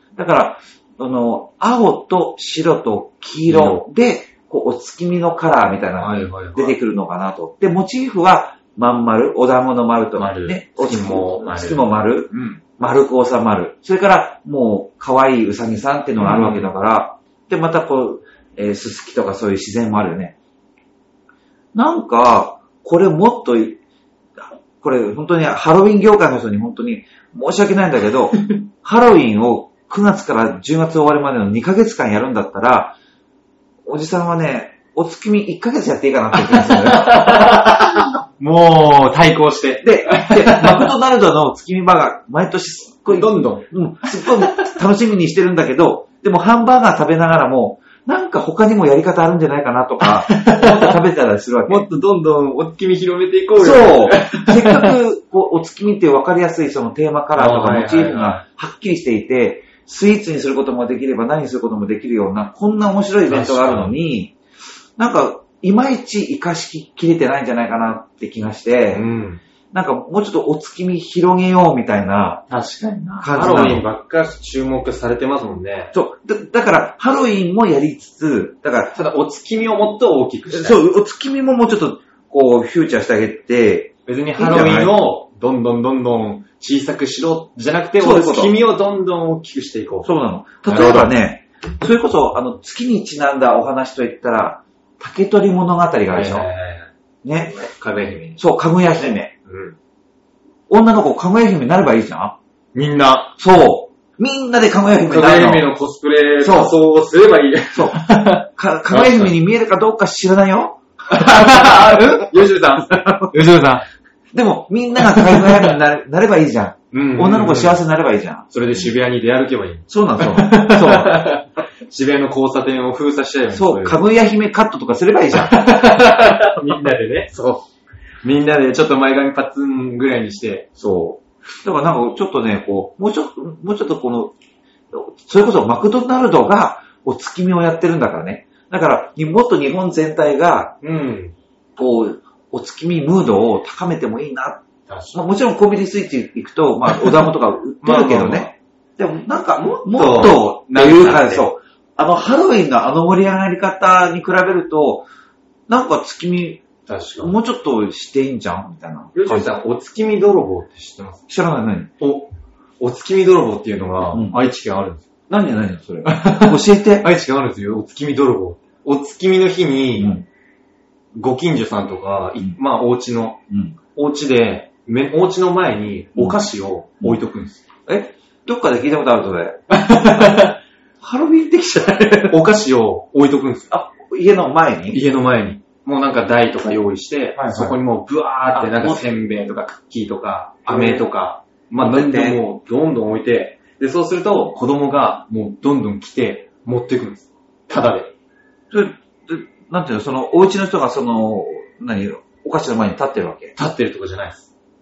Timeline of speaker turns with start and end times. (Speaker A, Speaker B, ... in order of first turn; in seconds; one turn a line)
Speaker A: 0.1-20.4
Speaker B: 3.5-3.8
Speaker B: 6.0-6.8
Speaker B: 10.2-12.6
Speaker B: 16.2-16.7
Speaker A: 21.7-23.8
Speaker A: 24.4-33.0
Speaker A: 33.9-37.6
Speaker B: 36.4-40.9
Speaker A: 39.8-51.9
Speaker B: 43.1-43.7
Speaker B: 50.0-50.9
Speaker B: 51.7-54.9
Speaker A: 53.6-64.4
Speaker B: 57.4-58.4
Speaker B: 63.3-64.0
Speaker A: 65.0-69.1
Speaker B: 68.9-69.4
Speaker A: 69.7-72.5
Speaker B: 72.5-75.9
Speaker A: 73.2-73.8
Speaker A: 75.9-78.9
Speaker B: 78.9-80.8
Speaker A: 80.5-85.0
Speaker B: 84.1-90.1
Speaker A: 88.0-88.6
Speaker A: 90.0-96.5
Speaker B: 90.6-91.1
Speaker B: 96.1-96.9
Speaker A: 97.2-97.6
Speaker B: 97.5-98.4
Speaker A: 98.4-99.3
Speaker B: 99.5-99.8
Speaker A: 100.7-102.4
Speaker B: 102.7-103.3
Speaker A: 103.4-105.7
Speaker B: 105.0-109.4
Speaker A: 106.4-106.8
Speaker A: 107.7-112.2
Speaker B: 111.1-113.8
Speaker A: 114.3-118.9
Speaker B: 115.1-115.7
Speaker B: 116.9-117.8
Speaker B: 118.5-124.0
Speaker A: 119.9-121.4
Speaker A: 123.5-125.6
Speaker B: 125.4-127.7
Speaker B: 128.2-130.7
Speaker A: 130.8-134.3
Speaker A: 134.9-140.8
Speaker B: 140.8-141.3
Speaker A: 141.8-155.1
Speaker B: 144.9-145.2
Speaker B: 147.8-148.5
Speaker B: 149.6-151.4
Speaker A: 155.7-156.7
Speaker B: 156.9-157.4
Speaker A: 157.2-159.5
Speaker B: 159.1-161.2
Speaker A: 161.3-161.9
Speaker B: 162.0-165.0
Speaker A: 164.1-164.4
Speaker A: 165.3-167.1
Speaker B: 166.1-170.2
Speaker A: 170.0-170.2
Speaker B: 171.2-173.4
Speaker A: 173.5-173.8
Speaker B: 173.9-177.6
Speaker A: 177.9-179.6
Speaker B: 179.7-180.6
Speaker A: 181.0-182.4
Speaker B: 182.3-183.7
Speaker A: 183.7-185.0
Speaker B: 184.9-198.1
Speaker A: 187.4-187.8
Speaker A: 188.5-189.1
Speaker A: 190.7-191.1
Speaker A: 191.8-192.4
Speaker A: 198.7-203.6
Speaker B: 203.6-204.5